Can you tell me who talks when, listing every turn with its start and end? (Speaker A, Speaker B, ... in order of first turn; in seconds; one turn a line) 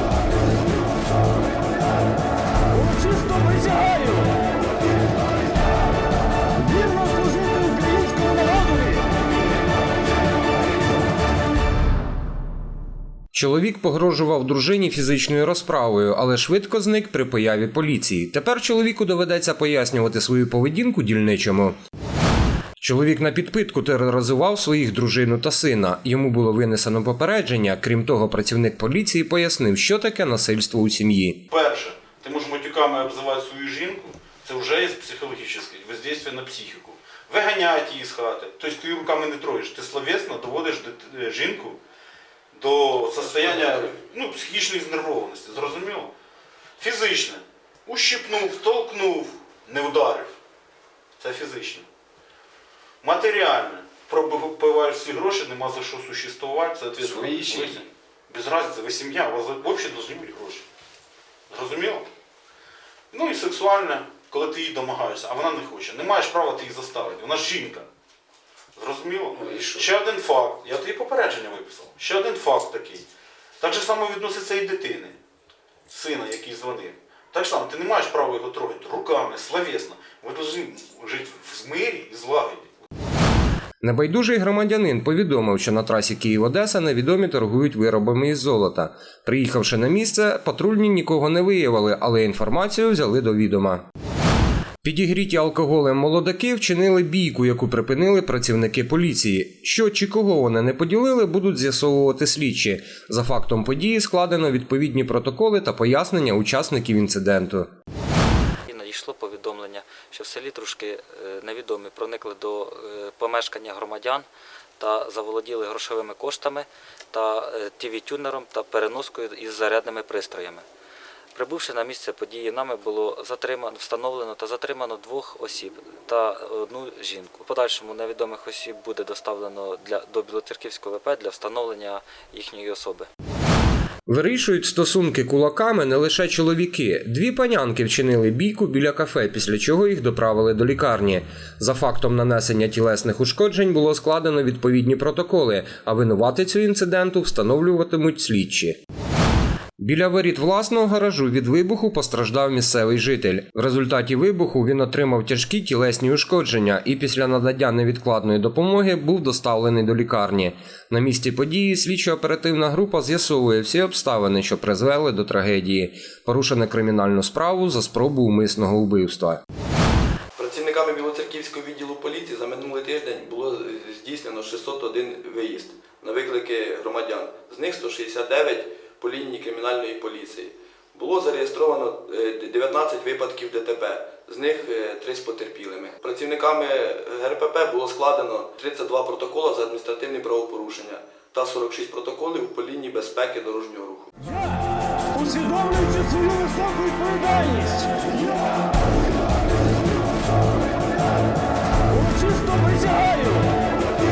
Speaker A: 2.8-4.2
Speaker A: 6.6-9.0
Speaker B: 13.3-21.8
Speaker B: 22.8-31.4
Speaker C: 31.5-41.8
Speaker C: 42.5-46.1
Speaker D: 43.4-43.6
Speaker C: 46.8-50.4
Speaker C: 51.2-51.9
Speaker C: 53.0-60.6
Speaker C: 61.5-62.0
Speaker C: 63.1-67.9
Speaker C: 68.8-73.0
Speaker D: 69.4-69.8
Speaker C: 73.6-75.2
Speaker C: 75.9-82.7
Speaker B: 83.8-93.8
Speaker B: 94.8-107.7
Speaker E: 108.7-114.3
Speaker E: 114.8-120.6
Speaker E: 121.3-133.1
Speaker B: 134.1-148.8
Speaker B: 149.8-169.4
Speaker D: 170.3-194.1
Speaker A: 195.1-197.9
Speaker A: 202.0-203.4